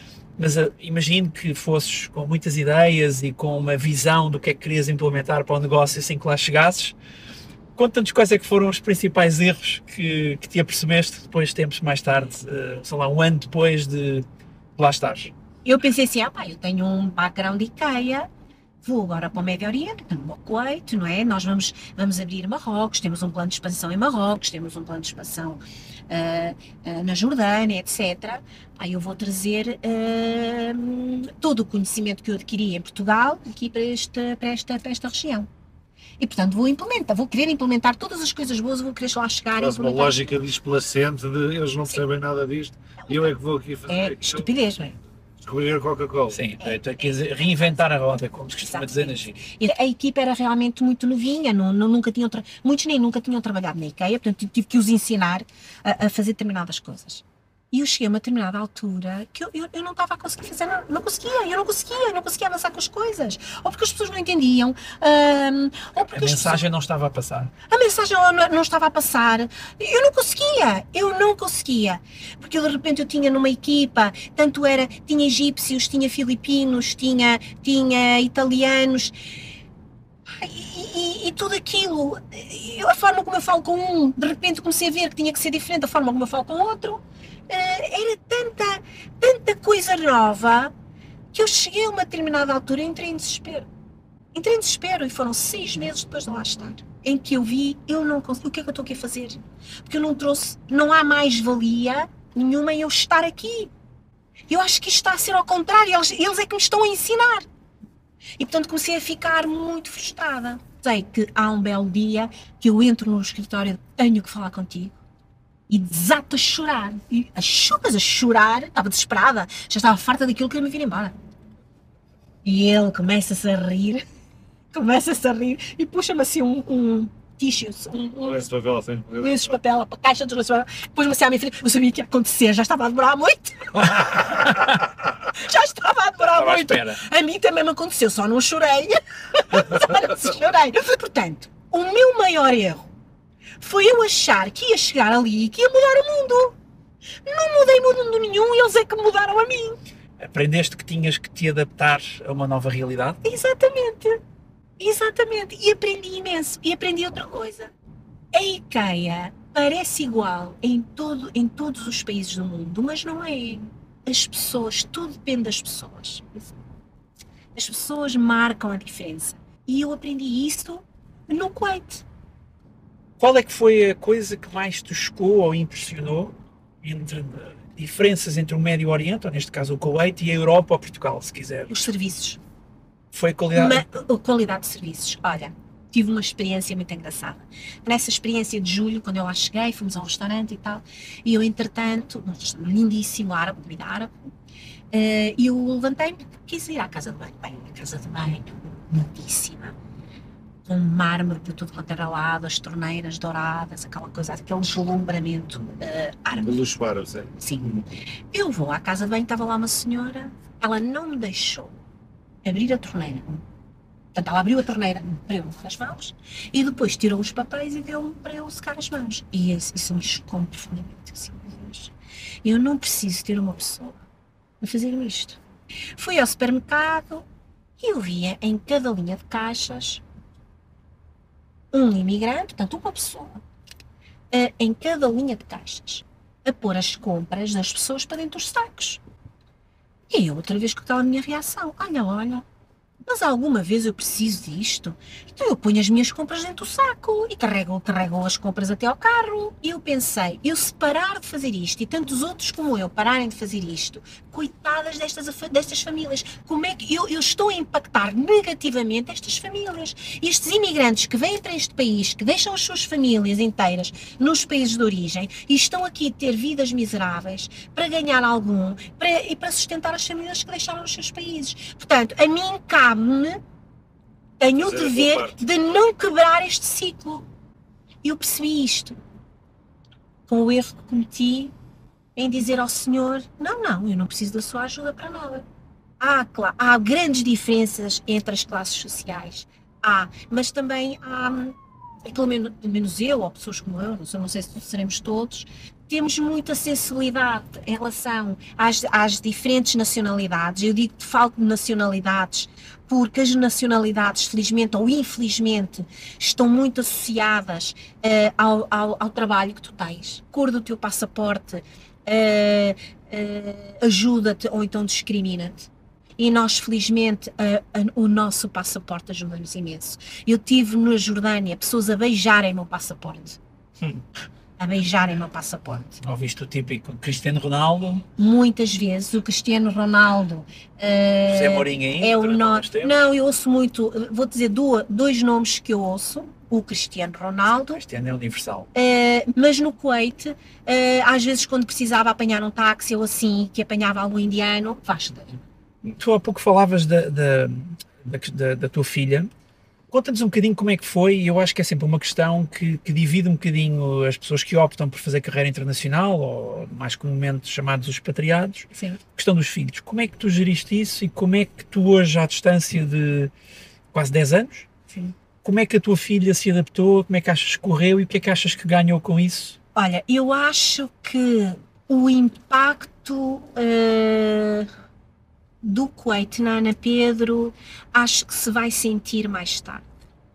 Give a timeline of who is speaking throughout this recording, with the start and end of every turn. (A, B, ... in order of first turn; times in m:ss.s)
0:00.4-0:06.9 A
0:07.8-0:15.3 A
0:15.6-0:18.3 B
0:18.8-0:35.5 B
0:36.2-0:40.2 B
0:39.6-0:44.5 C
0:43.9-0:45.0 B
0:45.4-0:46.4 C
0:46.3-0:49.3 A
0:46.6-0:47.4 B
0:48.6-1:06.7 B
1:06.1-1:07.5 A
1:07.7-1:19.2 B
1:20.3-1:30.7 B
1:31.3-1:33.7 B
1:34.3-1:43.7 B
1:44.5-1:47.4 B
1:48.4-1:55.0 B
1:55.7-2:01.1 B
2:02.4-2:04.0 B
2:04.7-2:08.4 B
2:08.2-2:09.5 C
2:09.2-2:14.5 B
2:14.1-2:14.4 C
2:15.3-2:22.9 B
2:16.4-2:17.0 A
2:23.6-2:26.6 B
2:27.2-2:29.8 B
2:30.2-2:33.2 A
2:33.2-2:34.2 B
2:34.8-2:37.7 B
2:38.3-2:46.5 B
2:47.5-2:52.0 B
2:53.2-3:01.8 A
3:01.7-3:02.4 B
3:03.1-3:03.8 A
3:03.5-3:14.1 B
3:14.9-3:19.8 B
3:20.6-3:26.6 B
3:26.4-3:27.4 C
3:27.4-3:31.7 B
3:32.4-3:33.4 B
3:34.1-3:41.9 B
3:42.4-3:44.0 B
3:44.6-3:45.4 B
3:46.0-3:47.2 B
3:47.8-3:50.0 B
3:51.7-3:53.4 B
3:54.3-3:59.0 B
4:00.1-4:02.4 B
4:03.0-4:33.4 B
4:34.4-4:37.2 B
4:34.6-4:35.4 C
4:38.0-4:39.0 B
4:40.3-4:41.5 B
4:42.2-4:45.4 B
4:46.0-5:23.4 B
5:24.6-5:26.0 B
5:26.0-5:28.0 A
5:28.2-5:37.8 B
5:31.3-5:32.9 A
5:37.7-5:38.7 A
5:38.7-5:45.4 B
5:45.8-5:49.3 A
5:49.9-6:03.3 A
5:58.7-5:59.0 B
6:03.9-6:04.7 A
6:05.4-6:09.6 A
6:09.7-6:14.7 B
6:15.6-6:19.9 B